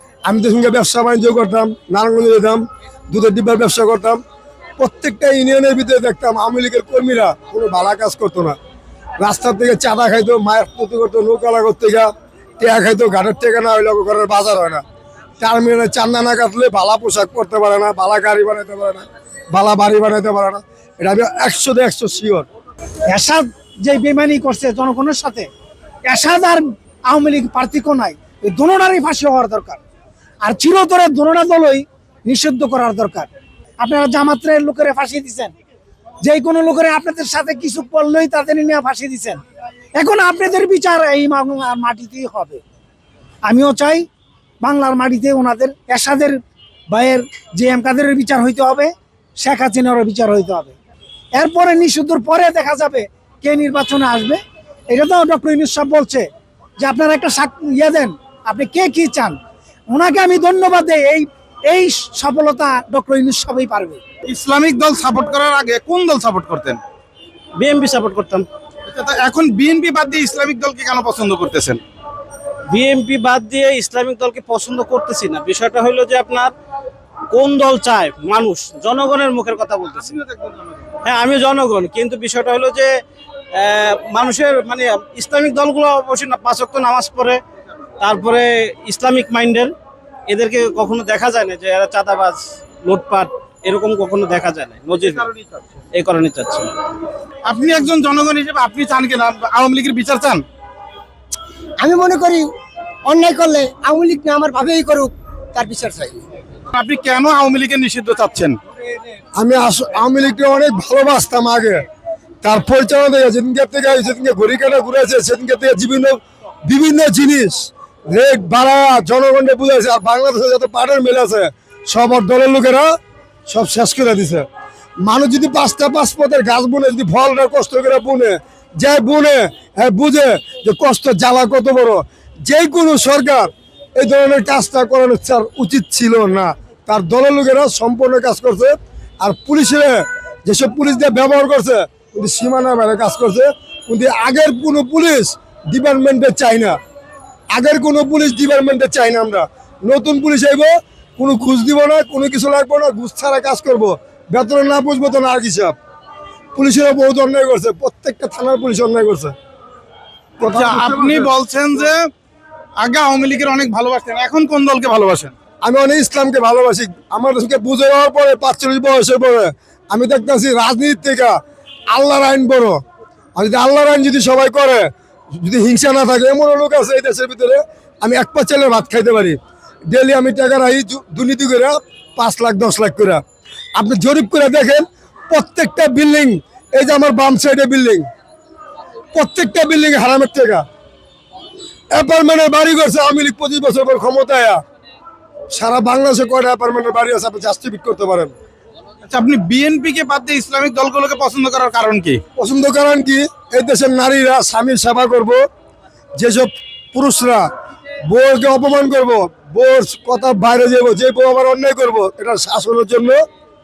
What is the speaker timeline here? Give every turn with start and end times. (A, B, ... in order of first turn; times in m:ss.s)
0:00.3-0:04.2 A
0:04.8-0:08.6 A
0:09.2-0:14.8 A
0:15.4-0:22.5 A
0:23.1-0:25.5 B
0:26.1-0:29.8 B
0:30.4-0:35.5 B
0:36.2-0:39.4 B
0:40.0-0:42.6 B
0:43.4-0:44.1 B
0:44.6-0:46.4 B
0:46.9-0:50.8 B
0:51.3-0:54.4 B
0:54.9-0:56.3 B
0:56.8-0:59.4 B
0:59.9-1:04.0 B
1:04.3-1:06.8 C
1:07.6-1:08.5 D
1:08.9-1:11.8 C
1:12.7-1:16.5 D
1:17.3-1:20.1 D
1:20.0-1:20.8 C
1:21.0-1:22.9 D
1:23.6-1:27.4 D
1:28.0-1:29.7 D
1:30.3-1:35.3 D
1:35.1-1:35.7 C
1:36.0-1:36.7 D
1:37.5-1:40.4 C
1:41.8-1:42.4 E
1:43.1-1:46.2 E
1:46.7-1:48.6 C
1:49.4-1:51.8 A
1:52.4-2:02.9 A
2:03.5-2:04.5 A
2:05.0-2:26.8 A
2:27.6-2:35.8 A
2:36.6-2:39.4 A
2:40.4-2:41.3 A
2:40.4-2:42.1 C
2:42.8-2:45.3 C
2:45.6-2:51.4 A
2:51.9-2:52.8 A
2:53.4-2:59.4 A
2:59.9-3:03.2 A
3:03.8-3:08.0 A
3:09.2-3:10.6 A
3:11.9-3:14.6 A
3:15.5-3:18.3 A
3:19.1-3:22.2 C
3:22.4-3:25.4 A
3:26.2-3:27.5 A
3:28.1-3:33.2 A